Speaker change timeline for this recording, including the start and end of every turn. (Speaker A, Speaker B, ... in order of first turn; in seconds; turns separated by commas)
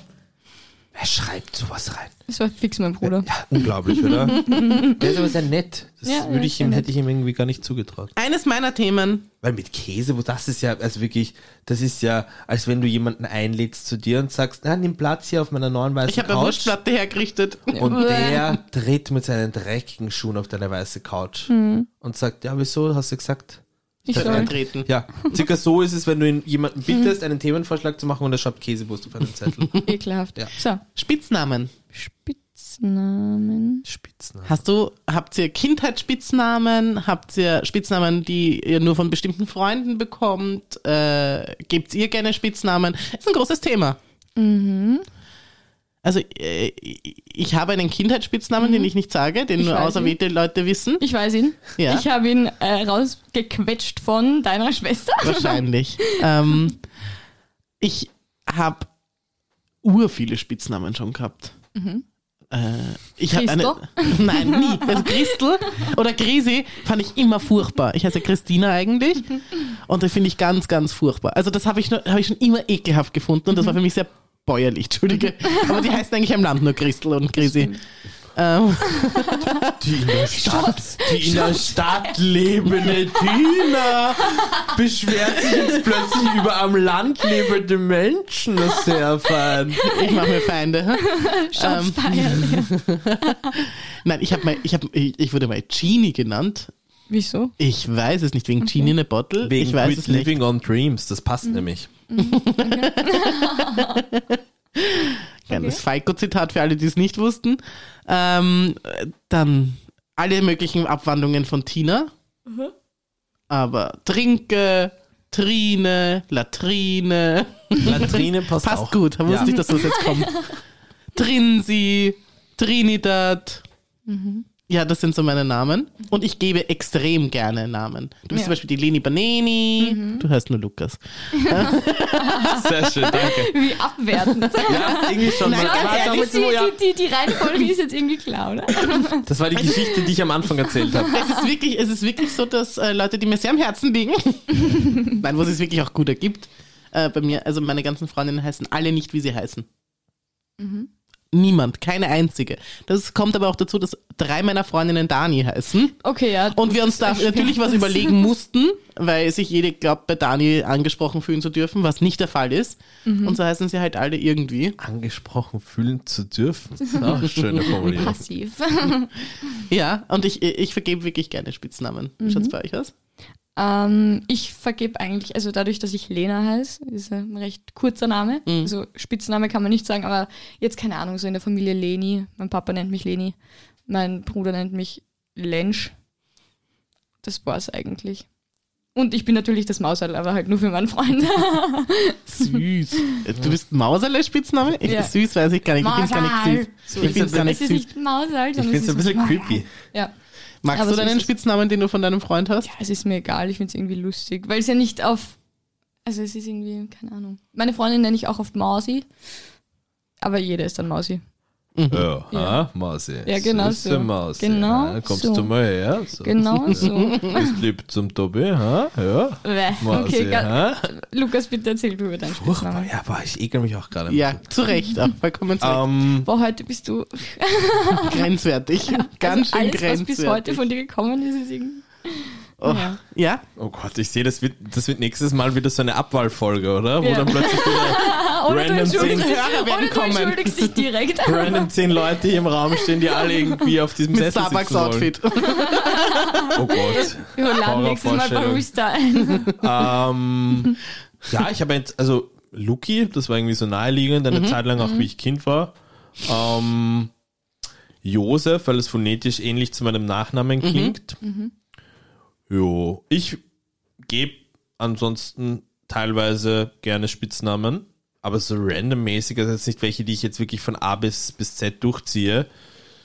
Speaker A: 0.9-2.1, Speaker B: 2.3-3.3, Speaker A: 3.0-8.1, Speaker B: 4.1-5.0, Speaker B: 6.0-6.9, Speaker C: 8.2-9.3, Speaker A: 9.4-16.8, Speaker C: 16.1-18.0, Speaker B: 17.7-18.6, Speaker A: 17.8-29.8, Speaker B: 21.5-21.9, Speaker B: 24.1-24.5, Speaker C: 24.1-24.9, Speaker B: 29.8-30.8, Speaker C: 30.9-31.7, Speaker B: 31.9-33.8, Speaker A: 33.8-34.6, Speaker C: 34.5-44.0, Speaker B: 44.4-45.0, Speaker C: 46.0-51.0, Speaker B: 48.6-48.9, Speaker B: 49.6-50.1, Speaker B: 51.0-56.2, Speaker C: 51.8-52.0, Speaker C: 55.2-56.8, Speaker C: 57.8-58.9, Speaker C: 59.8-61.5, Speaker B: 61.7-62.0, Speaker C: 62.5-77.8, Speaker B: 63.3-65.4, Speaker B: 77.4-77.8, Speaker C: 78.3-79.8, Speaker B: 79.2-79.5, Speaker A: 79.8-89.9, Speaker B: 80.2-82.1, Speaker B: 82.8-83.6, Speaker C: 89.8-96.7, Speaker B: 90.0-90.4, Speaker B: 91.0-92.9, Speaker B: 97.1-97.5, Speaker C: 97.6-100.3, Speaker B: 98.6-98.9, Speaker A: 99.4-101.9, Speaker B: 101.4-104.0, Speaker C: 102.2-112.1, Speaker B: 105.5-105.8, Speaker B: 112.5-112.7, Speaker C: 113.5-120.5, Speaker A: 117.8-119.6, Speaker B: 119.4-120.5, Speaker C: 121.1-123.6, Speaker B: 124.1-124.5, Speaker C: 124.7-132.3, Speaker B: 129.8-130.2, Speaker B: 131.3-139.9, Speaker A: 132.3-133.7, Speaker C: 134.5-136.3, Speaker A: 134.6-136.8, Speaker A: 139.2-141.2, Speaker B: 140.9-141.4, Speaker C: 141.1-149.7, Speaker B: 150.6-150.9, Speaker C: 151.3-155.9, Speaker B: 156.0-158.2, Speaker C: 156.5-164.8, Speaker B: 163.1-163.4, Speaker A: 164.8-168.2, Speaker B: 166.9-169.1, Speaker C: 169.7-172.9, Speaker B: 172.2-172.5, Speaker B: 173.6-183.3, Speaker C: 178.4-178.7, Speaker B: 183.9-185.9, Speaker B: 187.2-188.2, Speaker B: 188.9-193.2, Speaker C: 192.4-197.8, Speaker B: 194.8-195.1, Speaker B: 195.8-200.1, Speaker A: 197.0-197.4, Speaker A: 198.6-199.7, Speaker C: 200.6-202.7, Speaker B: 200.7-201.3, Speaker B: 202.7-205.3, Speaker B: 206.1-209.1, Speaker B: 210.2-211.2, Speaker C: 211.8-212.1, Speaker A: 211.9-220.9, Speaker B: 212.3-212.6, Speaker B: 213.2-215.5, Speaker B: 216.2-217.6, Speaker C: 216.9-217.3, Speaker B: 219.4-222.9, Speaker A: 222.3-224.4, Speaker C: 224.1-225.8, Speaker A: 225.6-226.3, Speaker B: 226.2-228.3, Speaker C: 227.9-230.6, Speaker B: 228.9-233.0, Speaker C: 232.6-233.4, Speaker A: 233.6-239.3, Speaker B: 237.0-241.7, Speaker C: 238.9-240.8, Speaker A: 241.2-245.1, Speaker B: 242.8-243.6, Speaker C: 244.1-246.6, Speaker B: 245.3-249.5, Speaker A: 246.5-248.7, Speaker C: 249.2-249.6, Speaker A: 249.5-250.8, Speaker A: 251.3-257.1, Speaker C: 254.3-254.6, Speaker B: 254.8-255.1, Speaker A: 258.0-261.2, Speaker C: 260.6-260.9, Speaker B: 261.2-261.5, Speaker A: 262.5-263.4, Speaker A: 264.0-272.5